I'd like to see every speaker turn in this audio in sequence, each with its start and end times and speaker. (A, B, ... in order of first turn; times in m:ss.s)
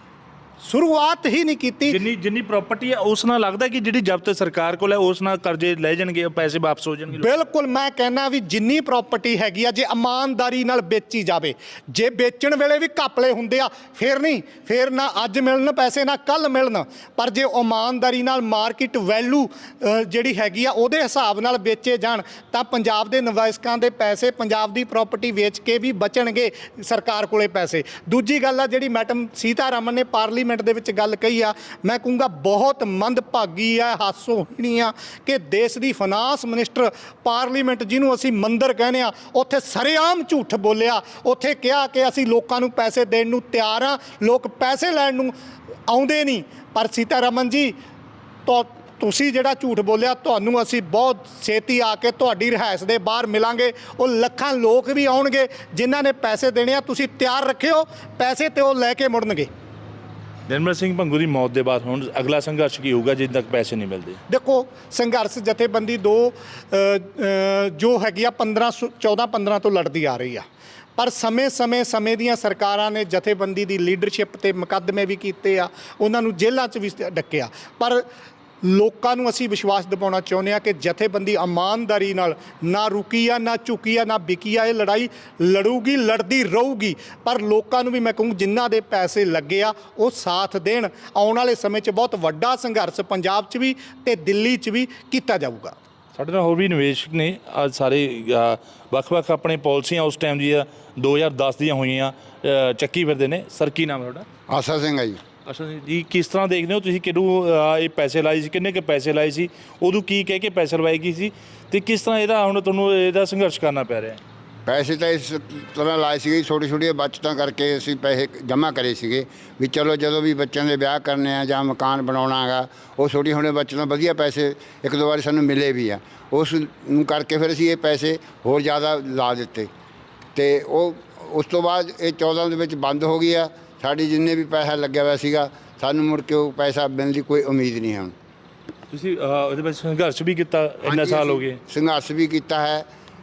0:00.6-0:02.0 A
0:01.9-0:07.3 B
0:07.2-0:45.3 A
0:45.9-0:47.8 A
0:48.5-0:59.5 A
1:00.5-1:04.2 B
1:04.3-1:18.0 A
1:18.6-1:35.8 A
1:36.2-1:44.3 B
1:44.5-1:45.2 C
1:45.5-1:54.2 B
1:54.7-2:09.7 C
2:10.4-2:18.1 C
2:18.9-2:21.6 B
2:20.8-2:22.9 C